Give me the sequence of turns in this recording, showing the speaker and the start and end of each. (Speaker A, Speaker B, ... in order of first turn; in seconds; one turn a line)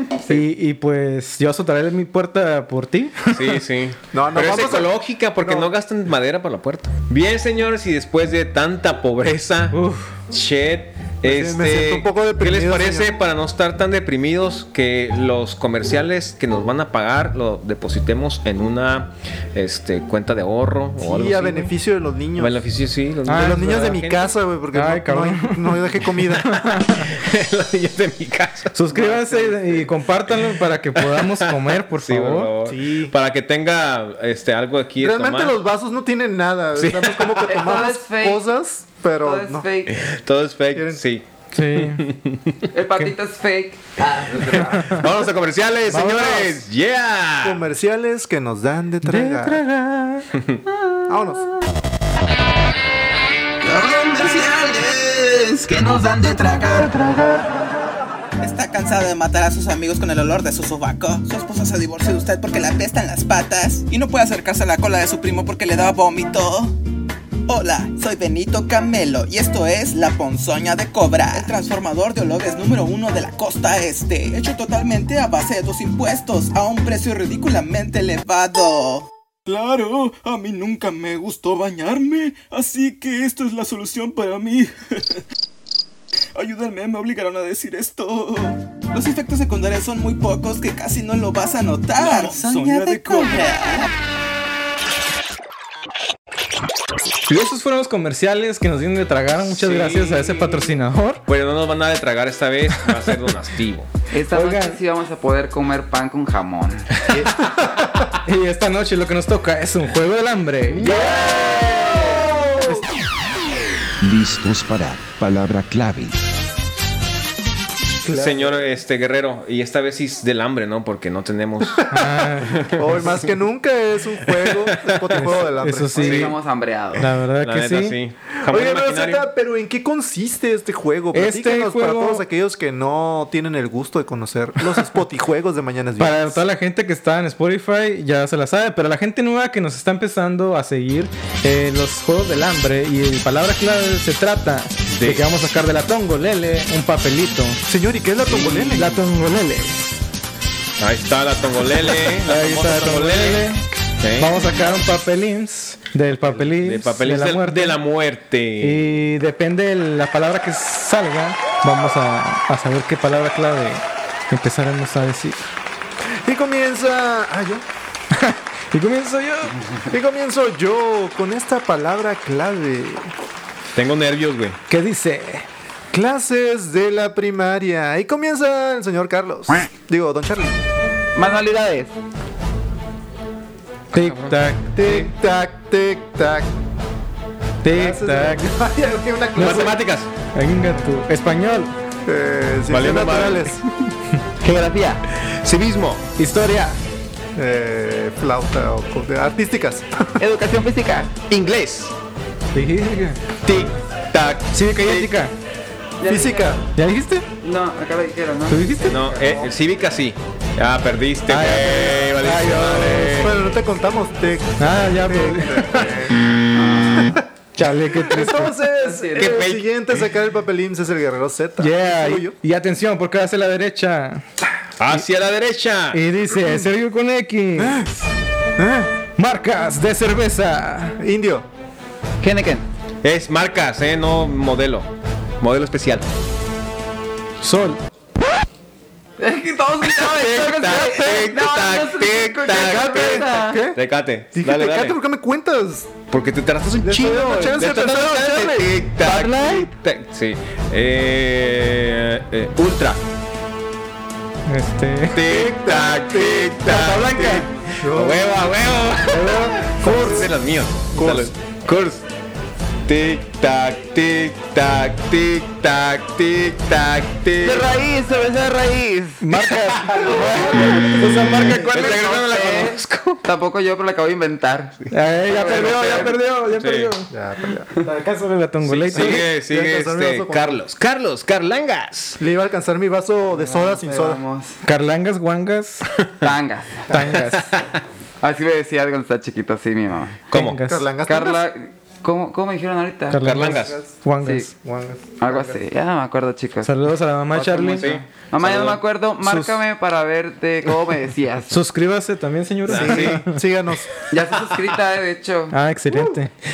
Speaker A: 0.3-3.6
Speaker B: 3.3-9.8
Speaker C: 4.1-5.7
Speaker A: 9.7-10.1
Speaker B: 10.3-21.7
Speaker C: 11.2-13.1
Speaker C: 21.0-22.6
Speaker B: 22.4-24.3
Speaker A: 23.2-23.9
Speaker C: 23.3-26.5
Speaker A: 24.7-27.1
Speaker B: 26.3-28.7
Speaker A: 28.7-32.5
Speaker D: 28.9-29.8
Speaker B: 30.9-35.6
Speaker C: 32.6-33.1
Speaker C: 35.0-39.7
Speaker B: 36.7-37.8
Speaker D: 37.4-38.5
Speaker D: 39.2-40.0
Speaker B: 39.9-42.6
Speaker C: 40.7-41.0
Speaker A: 41.5-42.0
Speaker D: 42.7-45.0
Speaker B: 44.5-47.6
Speaker A: 44.5-45.0
Speaker A: 45.9-46.5
Speaker C: 47.4-49.6
Speaker A: 49.0-50.3
Speaker B: 50.3-50.6
Speaker C: 51.1-51.5
Speaker E: 53.6-57.5
Speaker E: 58.4-66.8
Speaker E: 67.5-84.7
Speaker E: 86.3-93.9
Speaker A: 97.3-101.2
Speaker B: 99.5-103.9
Speaker D: 104.1-106.9
Speaker A: 104.3-104.8
Speaker C: 107.1-107.8
Speaker A: 108.2-111.1
Speaker B: 110.8-112.1
Speaker C: 111.0-112.8
Speaker F: 114.0-116.2
Speaker C: 118.0-118.7
Speaker B: 118.1-123.2
Speaker C: 121.8-122.1
Speaker A: 121.9-123.0
Speaker C: 122.7-126.3
Speaker B: 124.2-125.4
Speaker A: 125.2-126.3
Speaker D: 125.9-127.0
Speaker B: 126.0-126.3
Speaker A: 127.0-128.0
Speaker B: 127.4-129.3
Speaker C: 128.4-136.4
Speaker A: 131.1-132.2
Speaker A: 136.0-147.6
Speaker B: 144.9-145.2
Speaker C: 147.7-148.9
Speaker B: 148.2-149.0
Speaker A: 148.7-149.9
Speaker B: 150.8-153.4
Speaker A: 152.1-153.7
Speaker B: 154.0-154.4
Speaker A: 154.2-157.8
Speaker B: 156.4-159.0
Speaker A: 158.6-165.4
Speaker C: 166.2-167.6
Speaker A: 168.1-169.6
Speaker C: 169.9-173.1
Speaker B: 173.7-174.6
Speaker A: 174.7-175.4
Speaker C: 175.9-180.6
Speaker D: 181.1-181.9
Speaker A: 183.9-185.1
Speaker B: 183.9-184.4
Speaker C: 184.7-186.5
Speaker A: 187.6-188.5
Speaker C: 187.7-189.8
Speaker A: 189.3-189.7
Speaker B: 189.3-190.1
Speaker A: 190.3-191.7
Speaker C: 192.1-193.6
Speaker B: 192.7-193.7
Speaker D: 194.4-195.0
Speaker B: 195.1-196.0
Speaker A: 196.2-196.8
Speaker C: 197.3-200.1
Speaker D: 200.2-201.1
Speaker B: 201.3-201.9
Speaker A: 202.5-203.7
Speaker B: 203.4-205.1
Speaker A: 204.5-205.3
Speaker D: 206.0-206.6
Speaker C: 206.1-206.6
Speaker A: 206.7-207.2
Speaker D: 207.4-209.5
Speaker A: 208.5-209.0
Speaker B: 208.8-213.3
Speaker A: 211.3-213.3
Speaker C: 213.2-216.1
Speaker A: 214.6-216.0
Speaker D: 216.5-217.2
Speaker C: 217.0-217.2
Speaker A: 217.5-218.6
Speaker C: 217.9-222.3
Speaker D: 218.8-219.4
Speaker B: 219.1-220.0
Speaker A: 221.6-224.2
Speaker B: 224.8-226.0
Speaker A: 225.9-227.8
Speaker C: 226.3-226.7
Speaker C: 227.6-228.0
Speaker C: 228.6-228.9
Speaker A: 229.2-231.0
Speaker C: 231.0-231.4
Speaker D: 232.2-232.6
Speaker B: 233.0-234.9
Speaker B: 235.4-236.1
Speaker A: 237.4-237.8
Speaker D: 239.2-243.6
Speaker B: 239.9-245.0
Speaker C: 243.3-243.8
Speaker C: 244.3-245.9
Speaker B: 246.1-253.0
Speaker C: 246.8-248.7
Speaker D: 249.0-249.7
Speaker A: 254.5-255.3
Speaker B: 255.1-262.0
Speaker C: 255.2-256.6
Speaker A: 256.6-257.5
Speaker C: 257.8-258.2
Speaker A: 259.1-260.2
Speaker C: 259.8-260.3
Speaker C: 260.9-261.3
Speaker B: 262.9-267.7
Speaker D: 267.4-269.3
Speaker A: 269.2-272.2
Speaker B: 269.9-271.0
Speaker D: 269.9-271.0
Speaker B: 271.6-273.2
Speaker D: 271.6-276.1
Speaker A: 274.9-277.1
Speaker B: 276.5-276.9
Speaker C: 277.1-277.7
Speaker A: 277.8-279.3
Speaker B: 278.6-282.2
Speaker C: 278.9-280.6
Speaker C: 282.2-284.2
Speaker D: 283.3-284.6
Speaker A: 284.6-285.9
Speaker D: 286.2-286.8
Speaker A: 286.9-287.5
Speaker C: 286.9-287.1
Speaker B: 287.2-287.8
Speaker D: 288.2-290.2
Speaker B: 290.3-290.6
Speaker A: 290.3-290.9
Speaker C: 290.6-291.4
Speaker D: 291.1-293.2
Speaker A: 293.1-294.5
Speaker B: 293.2-293.8
Speaker C: 293.4-293.9
Speaker D: 294.2-294.5
Speaker C: 294.6-295.6
Speaker D: 295.2-296.8
Speaker A: 296.6-297.9
Speaker D: 297.3-301.6
Speaker B: 297.8-298.8
Speaker A: 299.2-299.6
Speaker A: 301.5-303.4
Speaker B: 302.6-303.2
Speaker C: 302.7-303.9
Speaker D: 304.1-305.6
Speaker A: 305.5-306.3
Speaker C: 305.9-306.1